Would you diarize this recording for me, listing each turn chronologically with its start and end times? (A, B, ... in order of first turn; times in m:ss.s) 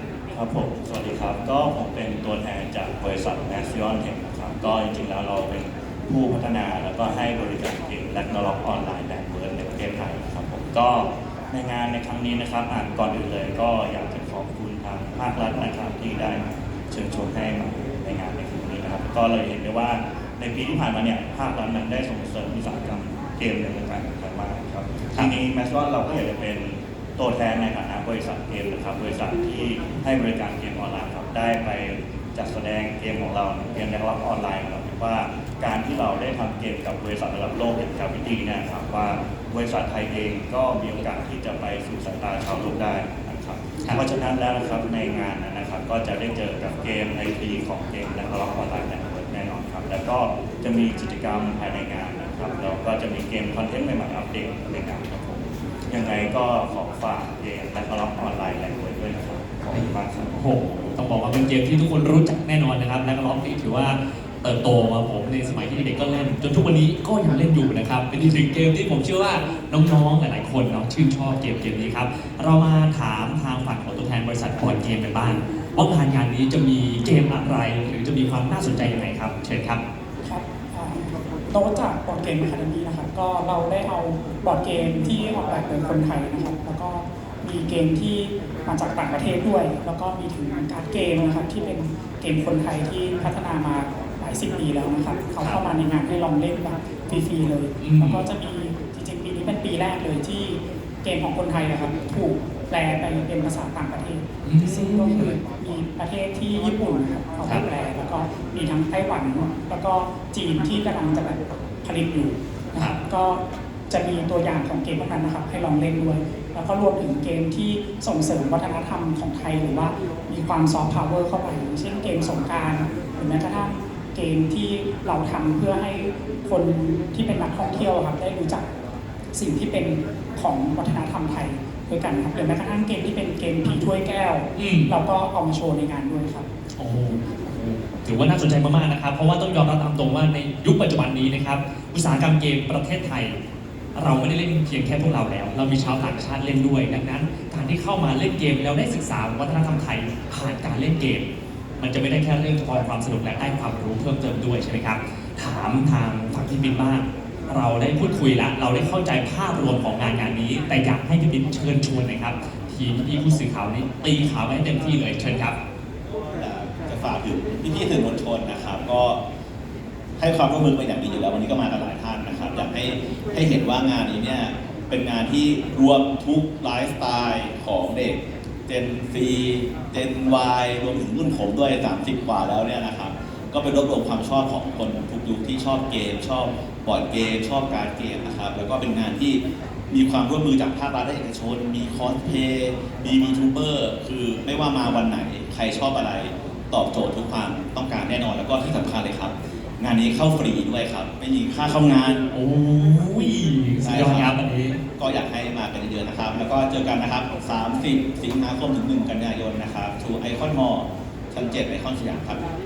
0:00.3-1:00.4 A
0:59.7-1:19.8 B
1:20.2-2:08.7 C
1:37.8-1:38.2 B
1:44.4-1:45.4 B
2:09.3-2:16.5 C
2:14.6-2:14.9 B
2:16.8-2:23.4 B
2:23.9-2:31.3 B
2:31.8-2:45.6 B
2:46.4-2:49.2 D
2:50.2-3:22.2 D
3:22.3-3:24.8 B
3:23.8-3:24.3 D
3:25.0-3:32.4 D